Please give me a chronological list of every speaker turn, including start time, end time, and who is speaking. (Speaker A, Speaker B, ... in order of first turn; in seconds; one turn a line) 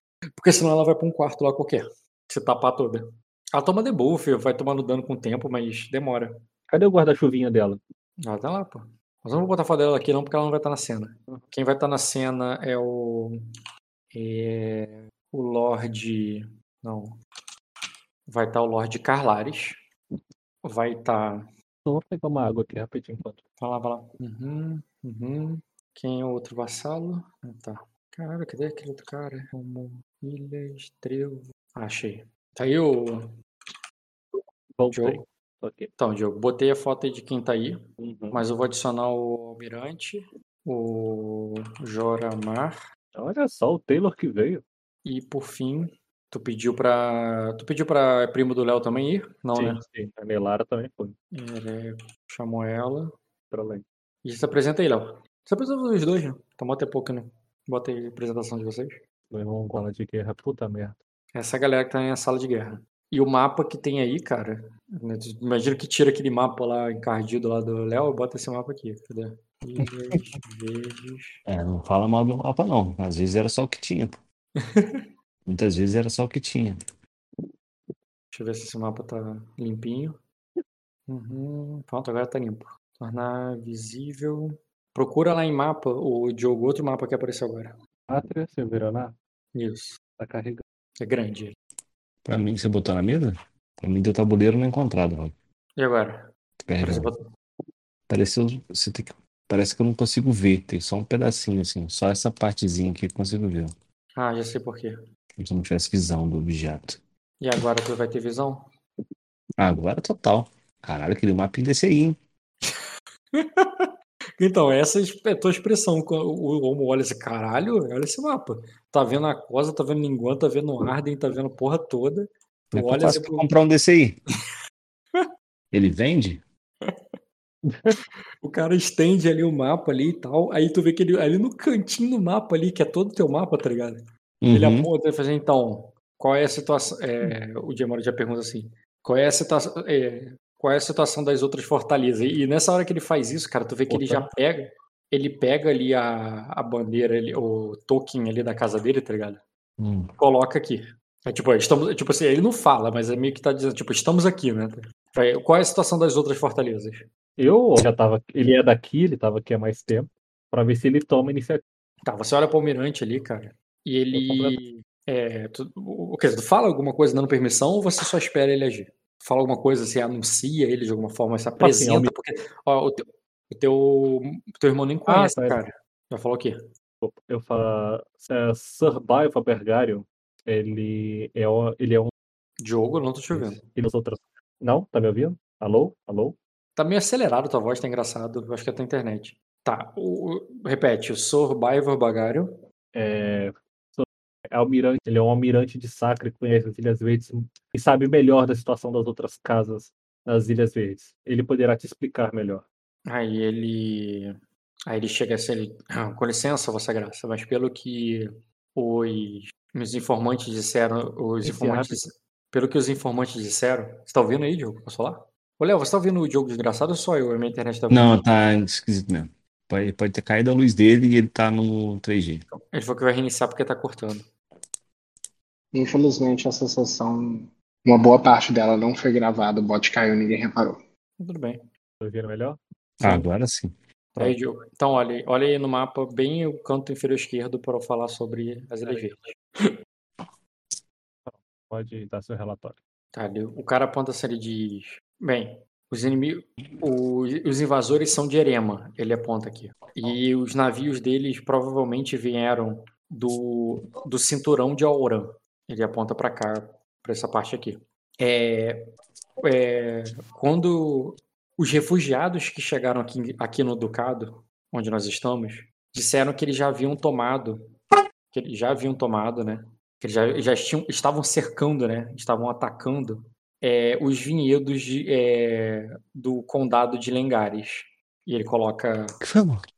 Speaker A: 0.3-6.4
Speaker B: 6.7-7.8
Speaker A: 8.2-13.4
Speaker A: 14.1-17.2
Speaker A: 18.3-19.7
Speaker A: 20.6-21.5
Speaker B: 21.9-23.4
Speaker A: 23.6-33.3
Speaker B: 34.8-35.9
Speaker A: 34.9-35.2
Speaker A: 36.0-42.8
Speaker B: 38.0-38.4
Speaker B: 43.1-44.6
Speaker A: 45.0-49.8
Speaker B: 49.5-51.1
Speaker A: 51.3-53.1
Speaker B: 53.5-53.8
Speaker A: 54.2-59.0
Speaker B: 59.3-61.0
Speaker A: 61.3-71.4
Speaker C: 71.5-74.2
Speaker A: 74.6-75.1
Speaker C: 75.5-76.8
Speaker A: 78.3-80.2
Speaker A: 81.1-87.7
Speaker B: 88.1-89.1
Speaker A: 89.5-90.0
Speaker B: 90.2-90.6
Speaker A: 91.0-91.5
Speaker C: 92.2-95.3
Speaker A: 95.8-96.3
Speaker C: 96.6-97.1
Speaker A: 96.8-97.2
Speaker C: 98.1-103.7
Speaker A: 104.2-105.0
Speaker C: 105.4-107.0
Speaker A: 107.4-108.6
Speaker C: 109.6-112.2
Speaker A: 113.3-123.5
Speaker C: 122.7-124.2
Speaker C: 125.7-126.4
Speaker B: 127.7-128.0
Speaker A: 128.4-134.0
Speaker C: 134.4-134.9
Speaker A: 134.5-149.4
Speaker B: 143.9-144.3
Speaker C: 149.8-150.1
Speaker A: 150.2-157.1
Speaker B: 157.4-161.6
Speaker A: 162.1-176.6
Speaker B: 164.1-164.5
Speaker B: 171.6-172.1
Speaker B: 175.1-175.6
Speaker B: 177.0-182.1
Speaker A: 182.6-183.6
Speaker B: 183.3-186.4
Speaker A: 186.8-192.6
Speaker B: 192.9-202.6
Speaker A: 203.1-204.3
Speaker A: 204.9-218.1
Speaker B: 211.4-212.0
Speaker C: 217.9-222.5
Speaker A: 222.7-224.2
Speaker D: 225.7-230.8
Speaker A: 231.2-231.6
Speaker B: 232.0-232.6
Speaker C: 233.0-234.3
Speaker A: 234.2-239.4
Speaker B: 238.8-239.2
Speaker B: 241.2-242.8
Speaker A: 243.1-258.9
Speaker A: 259.4-267.6
Speaker A: 268.3-279.1
Speaker C: 279.2-279.6